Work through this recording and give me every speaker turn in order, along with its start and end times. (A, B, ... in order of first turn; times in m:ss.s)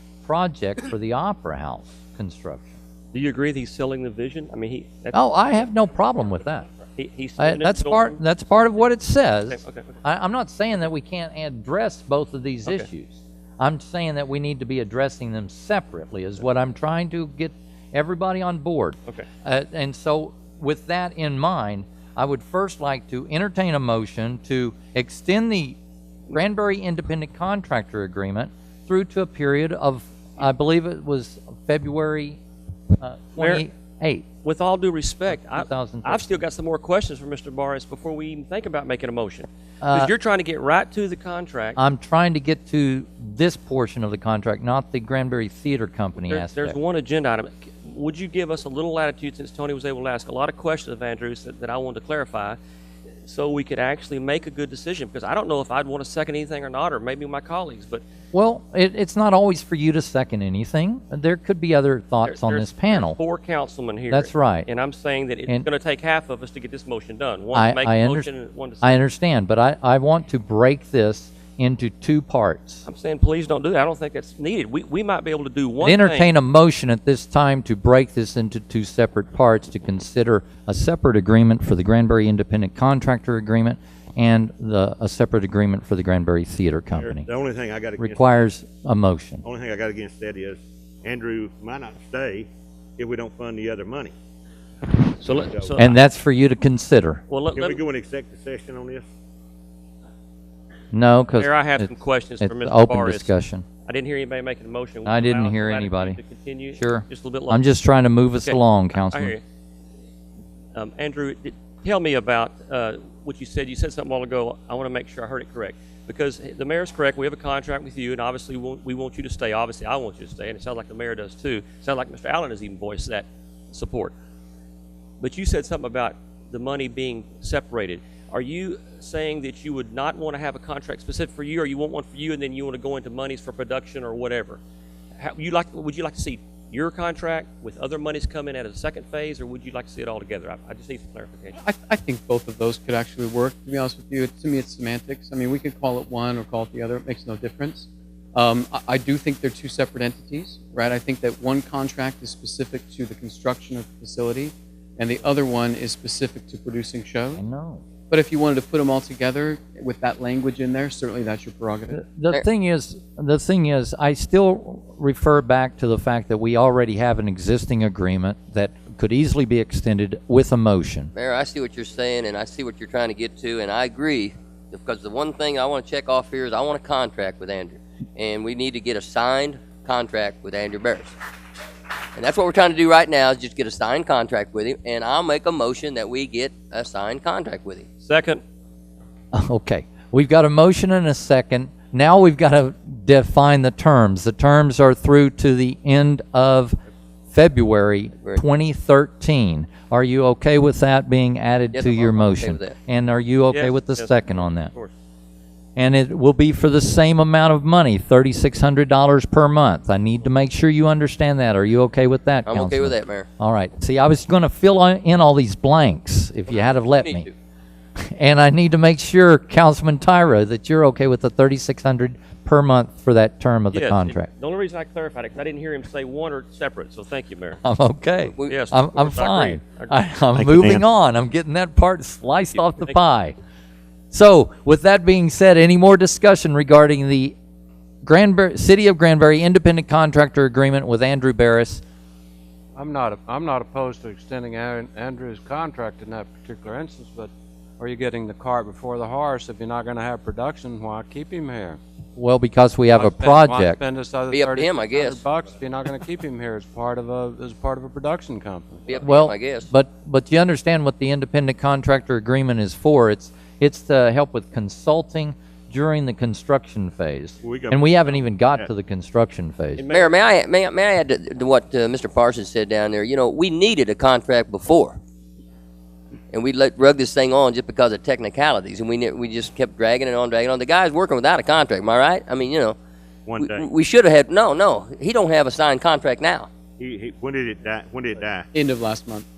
0:00.2-0:02.8 A
0:03.1-0:05.2 B
0:05.1-0:06.7 A
0:07.0-0:08.2 B
0:07.4-0:25.8 A
0:09.5-0:09.9 B
0:26.3-0:32.4 A
0:33.0-0:34.2 A
0:33.4-0:33.6 B
0:34.4-0:41.8 B
0:35.3-0:36.4 A
0:39.8-0:40.1 A
0:41.8-0:46.8 A
0:46.2-0:52.6 B
0:53.2-0:58.0 B
0:58.3-1:03.2 A
1:02.2-1:09.0 B
1:04.1-1:04.7 A
1:07.5-1:08.3 A
1:08.8-1:12.8 A
1:12.9-1:16.3 B
1:15.8-1:27.3 A
1:27.0-1:28.3 C
1:28.0-1:29.4 A
1:29.4-1:34.1 C
1:35.2-1:36.0 B
1:35.5-1:35.7 C
1:35.8-1:37.2 A
1:37.3-1:37.8 B
1:37.5-1:39.0 C
1:40.9-1:43.6 A
1:41.4-1:43.3 B
1:43.8-1:47.7 B
1:45.0-1:46.2 A
1:46.8-1:49.3 A
1:48.4-1:49.4 B
1:50.7-2:04.1 B
2:05.2-2:14.6 B
2:15.2-2:21.6 B
2:21.6-2:37.4 D
2:37.3-2:37.8 A
2:38.1-2:42.0 D
2:41.9-2:51.1 A
2:51.1-3:01.1 E
3:02.1-3:07.8 E
3:08.0-3:08.4 B
3:09.3-3:16.8 A
3:17.3-3:24.7 A
3:21.7-3:22.7 E
3:23.5-3:24.9 B
3:25.8-3:37.3 A
3:32.4-3:33.3 E
3:36.9-3:37.3 E
3:38.1-3:44.3 A
3:43.7-3:47.6 B
3:47.6-3:53.3 A
3:48.3-3:48.6 E
3:48.4-3:49.9 B
3:50.3-3:50.8 C
3:52.5-3:52.9 B
3:54.1-3:57.3 A
3:58.0-4:01.8 A
4:02.7-4:11.8 F
4:12.2-4:13.8 A
4:13.0-4:19.0 F
4:14.3-4:15.2 E
4:18.9-4:19.7 E
4:19.0-4:29.8 A
4:27.4-4:28.7 C
4:29.8-4:30.2 B
4:29.9-4:35.0 E
4:36.3-4:42.8 E
4:43.2-4:43.7 C
4:43.4-4:46.5 E
4:46.8-4:48.5 C
4:48.5-4:49.2 D